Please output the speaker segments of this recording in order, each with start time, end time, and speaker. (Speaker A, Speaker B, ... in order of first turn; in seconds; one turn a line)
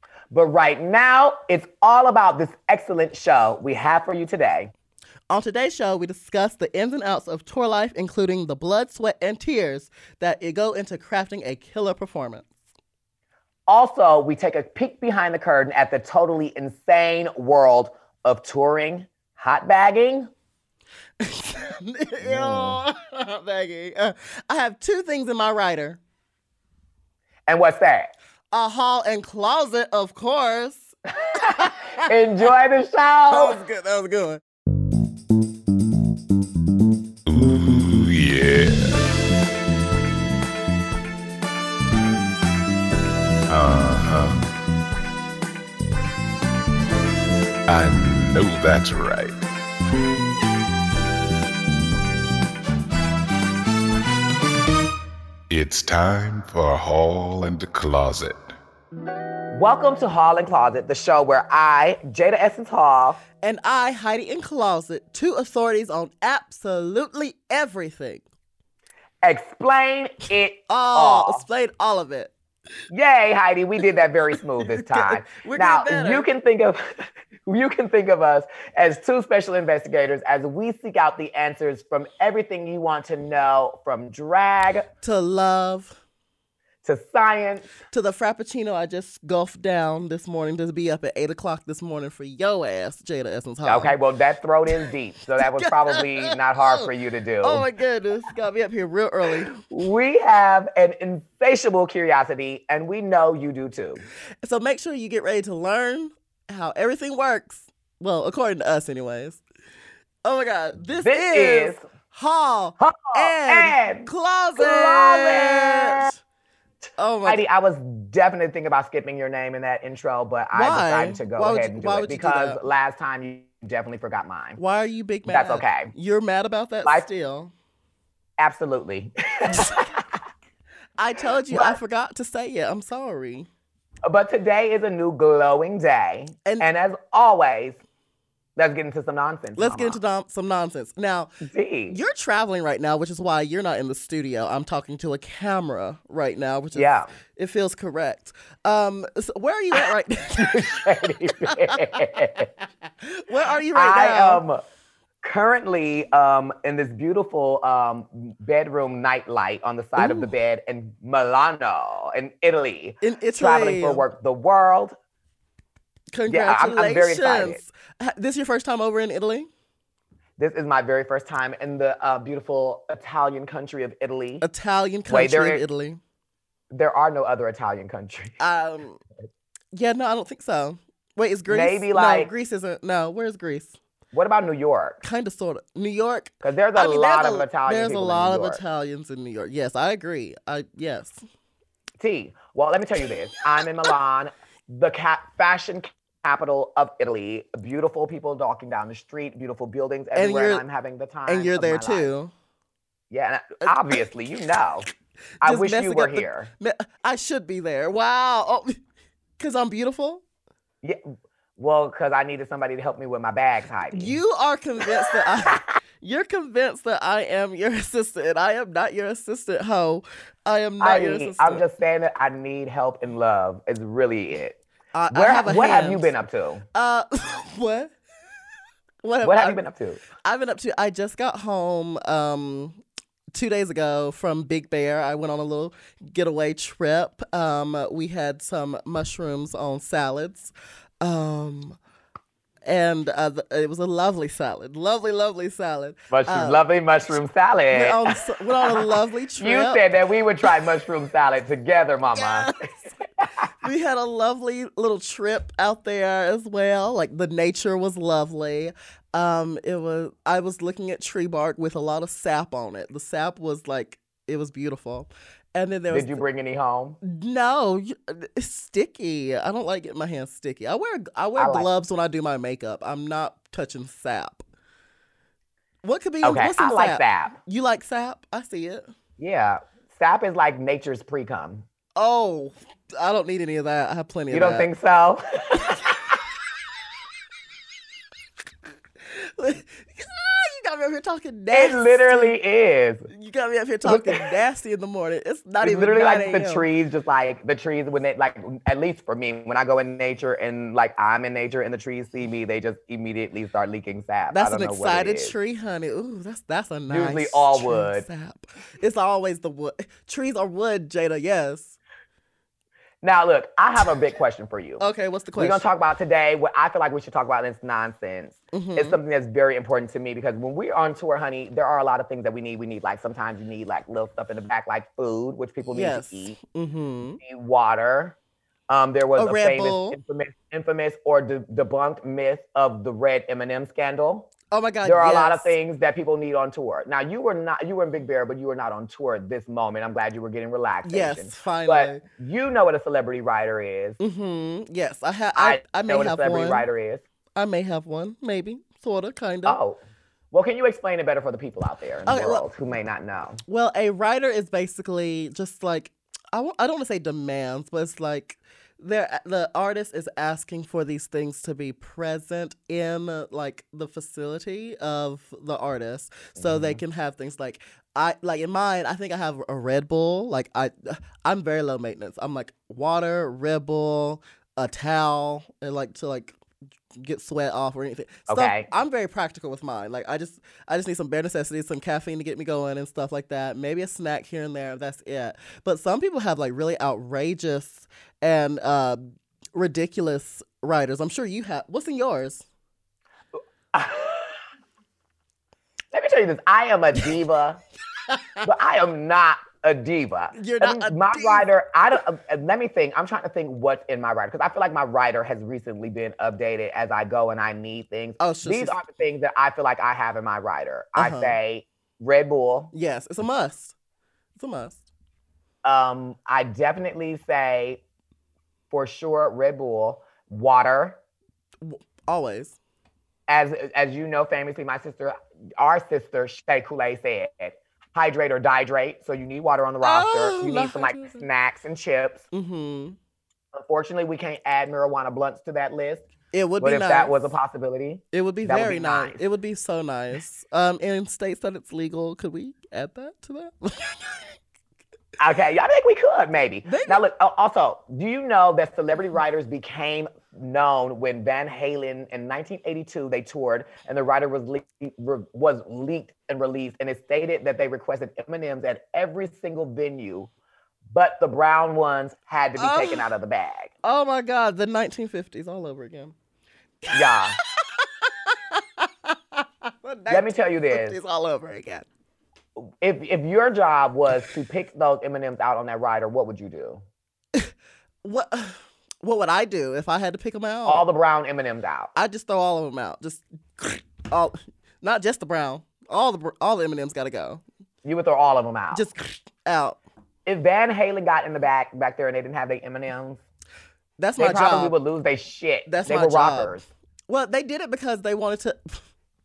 Speaker A: 0.3-4.7
Speaker B: 5.3-12.5
Speaker A: 13.7-20.3
Speaker B: 21.2-26.0
Speaker A: 22.2-22.8
Speaker A: 27.5-28.1
Speaker B: 28.5-32.1
Speaker A: 31.4-33.6
Speaker B: 33.3-34.4
Speaker C: 37.3-39.2
Speaker C: 43.5-44.5
Speaker C: 47.7-49.4
Speaker C: 55.5-58.5
Speaker A: 59.5-63.2
Speaker B: 63.4-68.2
Speaker A: 69.2-71.4
Speaker B: 70.7-72.3
Speaker A: 72.9-84.9
Speaker B: 74.6-76.3
Speaker B: 85.0-86.0
Speaker A: 86.8-87.8
Speaker B: 87.9-94.0
Speaker A: 93.7-97.6
Speaker B: 94.7-96.9
Speaker B: 97.4-99.6
Speaker A: 99.7-104.0
Speaker B: 104.4-109.4
Speaker B: 110.2-116.2
Speaker A: 111.0-111.8
Speaker A: 112.8-116.1
Speaker B: 117.0-117.4
Speaker A: 117.2-124.6
Speaker B: 120.5-122.6
Speaker B: 124.6-127.5
Speaker A: 125.3-125.9
Speaker A: 128.4-130.2
Speaker B: 131.0-133.5
Speaker A: 131.5-131.8
Speaker A: 134.1-137.8
Speaker A: 138.6-140.0
Speaker B: 139.6-141.3
Speaker A: 141.4-142.0
Speaker B: 141.9-150.8
Speaker A: 146.8-147.1
Speaker A: 149.8-152.5
Speaker B: 151.4-152.2
Speaker B: 153.0-154.4
Speaker A: 153.7-154.6
Speaker A: 155.2-164.9
Speaker B: 160.0-160.3
Speaker B: 163.0-164.1
Speaker B: 166.1-169.5
Speaker A: 166.3-167.6
Speaker A: 170.4-174.4
Speaker B: 174.4-176.0
Speaker A: 175.1-175.6
Speaker A: 176.7-178.4
Speaker B: 178.4-179.0
Speaker B: 179.7-183.8
Speaker A: 181.5-182.3
Speaker A: 184.1-185.0
Speaker B: 185.0-191.2
Speaker A: 186.4-188.6
Speaker A: 192.0-202.1
Speaker B: 200.2-200.6
Speaker B: 201.3-202.3
Speaker A: 203.1-204.9
Speaker B: 203.6-204.0
Speaker B: 205.4-208.8
Speaker A: 205.4-206.5
Speaker B: 209.4-210.2
Speaker A: 211.6-214.2
Speaker B: 213.9-221.6
Speaker A: 215.1-215.6
Speaker A: 220.8-224.6
Speaker B: 224.9-226.1
Speaker A: 225.1-226.6
Speaker B: 226.7-227.9
Speaker B: 229.0-229.6
Speaker A: 229.2-230.0
Speaker B: 230.2-232.8
Speaker B: 233.3-241.8
Speaker B: 242.7-246.7
Speaker A: 246.1-252.5
Speaker B: 247.7-249.8
Speaker B: 252.2-252.7
Speaker B: 253.6-266.2
Speaker A: 265.9-267.0
Speaker B: 267.0-274.4
Speaker A: 271.4-271.7
Speaker B: 275.8-278.9
Speaker A: 276.2-277.3
Speaker A: 279.2-281.7
Speaker B: 282.0-284.7
Speaker A: 284.3-286.2
Speaker B: 289.0-292.4
Speaker A: 291.5-293.1
Speaker B: 293.1-296.7
Speaker A: 293.9-294.2
Speaker A: 295.6-305.3
Speaker B: 304.3-311.8
Speaker A: 306.9-308.1
Speaker A: 313.0-326.4
Speaker B: 314.8-315.6
Speaker B: 318.5-319.0
Speaker B: 325.7-327.2
Speaker A: 327.2-328.2
Speaker A: 328.7-334.3
Speaker B: 329.2-330.0
Speaker B: 334.5-335.6
Speaker A: 334.8-344.0
Speaker B: 340.8-342.0
Speaker B: 344.0-346.7
Speaker A: 345.4-347.0
Speaker B: 347.4-349.6
Speaker A: 349.4-349.8
Speaker A: 350.3-353.4
Speaker B: 352.1-352.5
Speaker B: 353.5-376.4
Speaker A: 366.4-366.8
Speaker B: 377.0-389.0
Speaker A: 378.3-378.7
Speaker B: 389.5-392.4
Speaker A: 393.7-394.4
Speaker A: 395.9-397.6
Speaker B: 398.1-398.5
Speaker A: 398.4-412.7
Speaker B: 400.4-401.5
Speaker B: 408.2-408.8
Speaker B: 411.0-411.4
Speaker B: 412.7-413.8
Speaker B: 414.4-414.8
Speaker A: 415.6-417.8
Speaker A: 418.7-421.0
Speaker B: 421.6-422.6
Speaker A: 423.3-432.2
Speaker B: 429.8-431.3
Speaker B: 432.3-433.0
Speaker A: 433.5-436.1
Speaker B: 436.3-437.3
Speaker A: 436.6-439.2
Speaker B: 438.1-444.3
Speaker A: 445.2-460.3
Speaker B: 446.6-447.0
Speaker A: 460.9-463.7
Speaker B: 462.6-463.1
Speaker B: 463.8-466.1
Speaker B: 466.8-471.9
Speaker A: 466.9-467.4
Speaker A: 470.1-471.0
Speaker A: 472.6-476.8
Speaker B: 478.0-480.9
Speaker A: 480.7-481.9
Speaker B: 481.9-487.4
Speaker A: 487.8-488.8
Speaker B: 488.7-489.8
Speaker A: 490.3-493.2
Speaker B: 494.0-494.8
Speaker A: 494.2-496.7
Speaker B: 495.7-498.8